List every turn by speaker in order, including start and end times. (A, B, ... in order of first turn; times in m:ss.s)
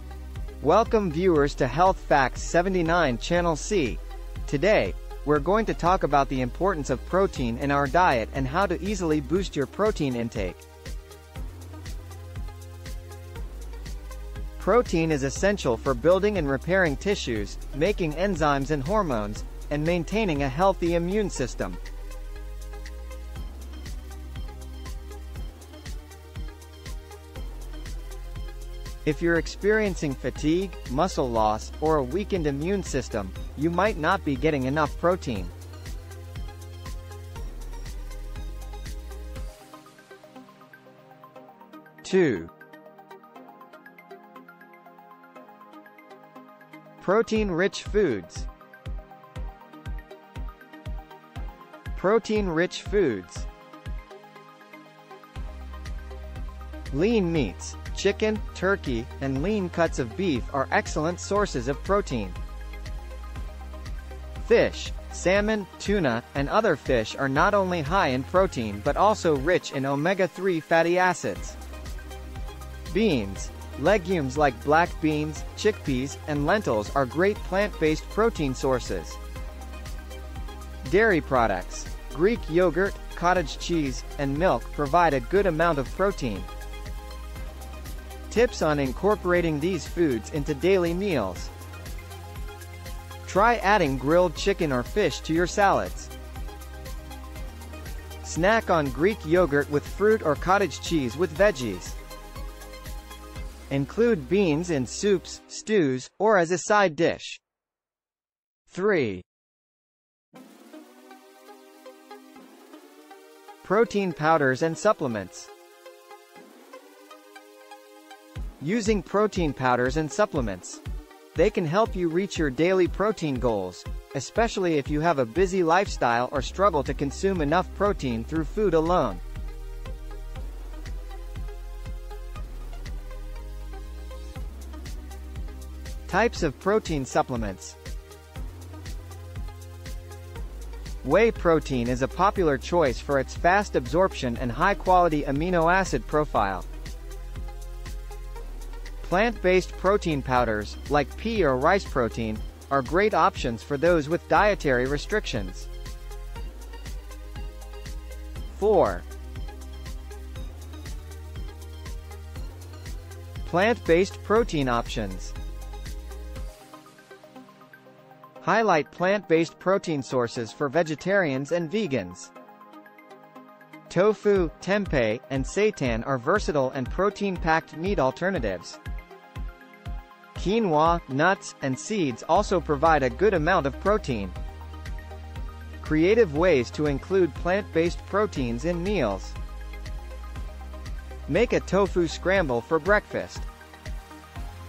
0:00.6-0:10.6 A
0:14.6-0:21.8 A
0:29.0-0:35.5 A
0:42.0-0:42.5 A
0:47.0-0:48.5 A
0:52.0-0:53.5 A
0:56.9-1:02.4 A
1:04.4-1:11.6 A
1:12.9-1:19.2 A
1:20.9-1:26.5 A
1:28.3-1:31.5 A
1:33.2-1:36.1 A
1:38.2-1:42.0 A
1:43.7-1:47.4 A
1:48.7-1:49.2 A
1:53.6-1:55.5 A
1:58.6-2:00.8 A
2:01.3-2:09.2 A
2:16.1-2:17.8 A
2:21.0-2:26.7 A
2:29.0-2:35.7 A
2:38.5-2:39.1 A
2:43.4-2:45.3 A
2:48.4-2:52.3 A
2:53.9-2:58.8 A
3:00.3-3:04.4 A
3:05.8-3:09.4 A
3:11.3-3:13.5 A